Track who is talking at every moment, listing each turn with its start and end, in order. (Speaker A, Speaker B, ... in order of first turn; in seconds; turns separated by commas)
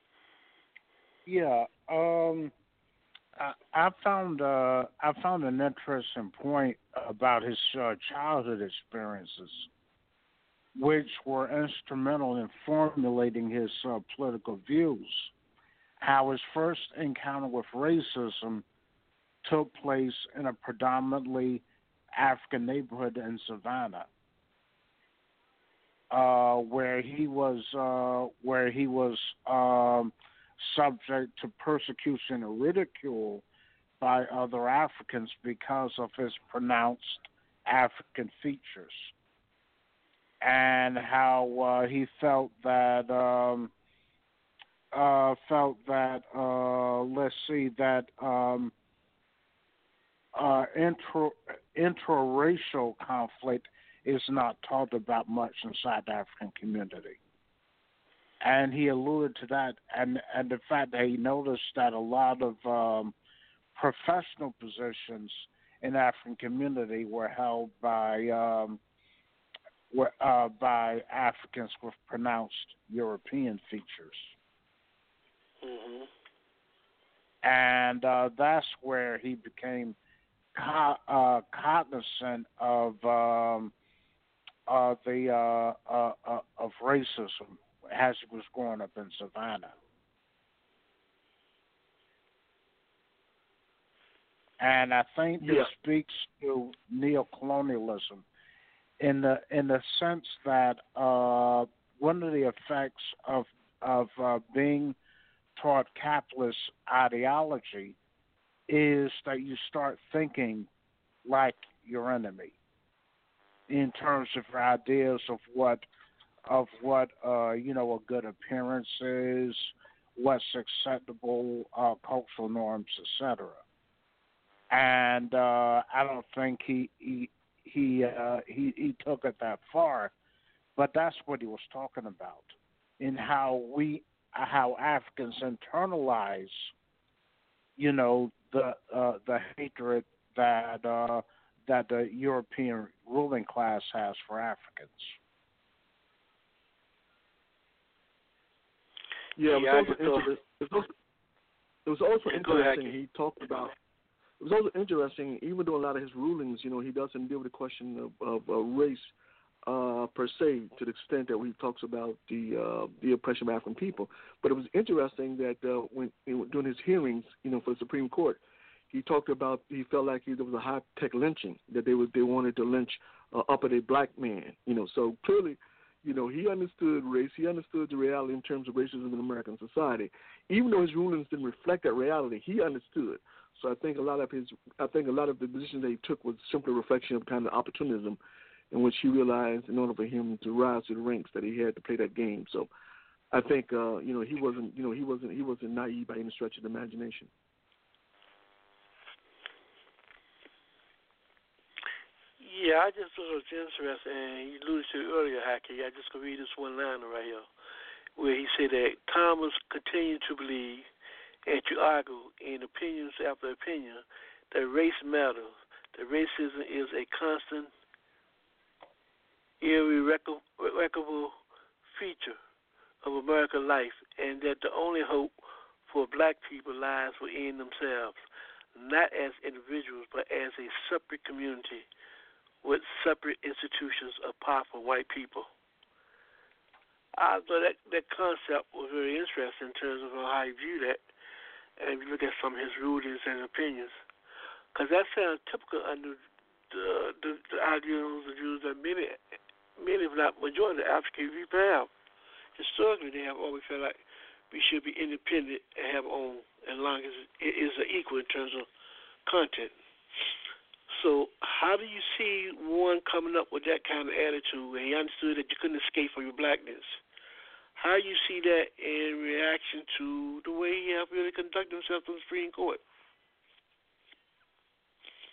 Speaker A: 1.3-2.5, Speaker A: 3.4-9.7, Speaker A: 10.8-15.3, Speaker A: 16.0-18.6, Speaker A: 19.4-24.1, Speaker A: 26.1-33.4, Speaker A: 34.0-39.1, Speaker A: 40.4-43.7, Speaker A: 44.9-48.7, Speaker A: 50.4-57.2, Speaker A: 58.4-63.1, Speaker A: 63.7-68.8, Speaker A: 69.9-74.3, Speaker B: 75.6-76.1, Speaker A: 77.4-80.0, Speaker A: 80.5-83.7, Speaker A: 84.7-89.8, Speaker A: 94.6-98.2, Speaker C: 95.4-95.7, Speaker A: 99.0-105.0, Speaker A: 105.6-108.0, Speaker A: 108.7-110.7, Speaker A: 111.2-112.5, Speaker A: 113.7-115.8, Speaker A: 116.5-123.6, Speaker A: 124.7-130.1, Speaker A: 130.8-136.7, Speaker A: 137.8-145.2, Speaker C: 149.4-150.9, Speaker B: 149.5-150.3, Speaker C: 151.9-153.7, Speaker B: 152.3-152.9, Speaker C: 154.4-159.1, Speaker C: 159.7-168.4, Speaker C: 168.9-188.2, Speaker C: 188.7-192.7, Speaker C: 193.3-197.3, Speaker B: 202.4-207.5, Speaker B: 208.2-210.9, Speaker B: 211.5-217.7, Speaker B: 219.6-221.3, Speaker B: 221.9-222.4, Speaker B: 223.0-225.3, Speaker B: 225.9-228.2, Speaker B: 228.8-231.8, Speaker B: 232.6-235.5, Speaker B: 237.2-241.0, Speaker B: 241.8-244.0, Speaker B: 244.8-246.2, Speaker B: 246.7-249.2, Speaker B: 249.8-251.9, Speaker B: 252.6-254.0, Speaker B: 254.5-258.7, Speaker B: 259.3-259.7, Speaker B: 260.9-267.0, Speaker B: 267.8-272.8